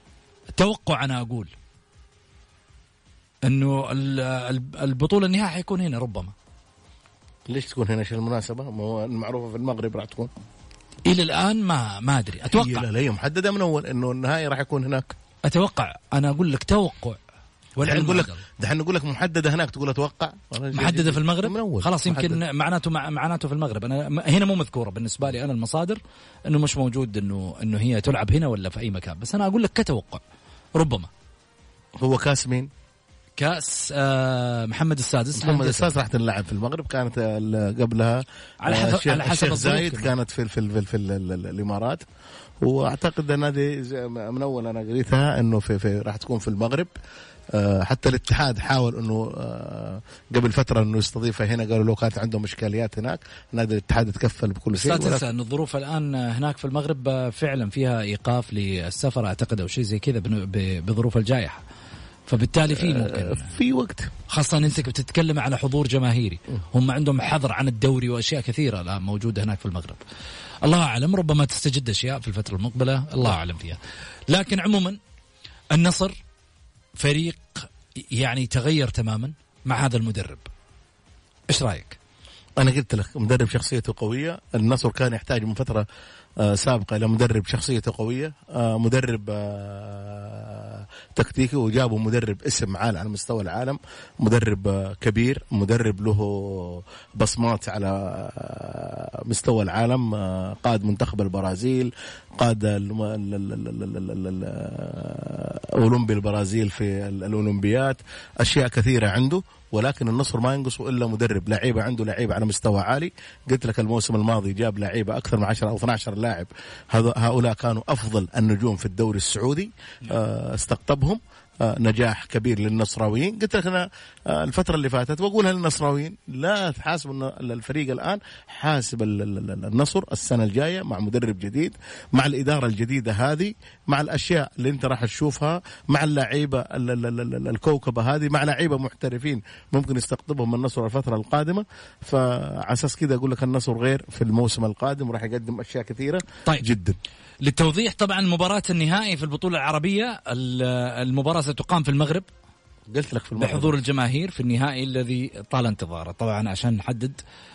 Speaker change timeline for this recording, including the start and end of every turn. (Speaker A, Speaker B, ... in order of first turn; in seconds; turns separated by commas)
Speaker A: 0.6-1.5, Speaker A: 3.5-6.3, Speaker B: 7.5-10.3, Speaker A: 11.1-12.9, Speaker B: 12.5-15.1, Speaker A: 15.4-17.2, Speaker A: 17.8-18.4, Speaker B: 17.8-22.4, Speaker A: 20.7-30.2, Speaker A: 30.8-31.1, Speaker B: 32.0-32.7, Speaker A: 33.4-35.9, Speaker B: 35.4-42.0, Speaker A: 38.6-40.1, Speaker B: 42.6-46.9, Speaker B: 47.5-55.2, Speaker A: 54.7-61.6, Speaker A: 62.3-63.5, Speaker B: 62.8-64.1, Speaker A: 64.3-70.0, Speaker A: 70.6-73.8, Speaker A: 74.3-75.0, Speaker A: 75.7-76.2, Speaker A: 77.0-80.5, Speaker A: 81.5-82.0, Speaker B: 82.6-85.8, Speaker B: 86.4-147.0, Speaker A: 147.4-152.3, Speaker B: 152.9-153.7, Speaker A: 153.4-157.2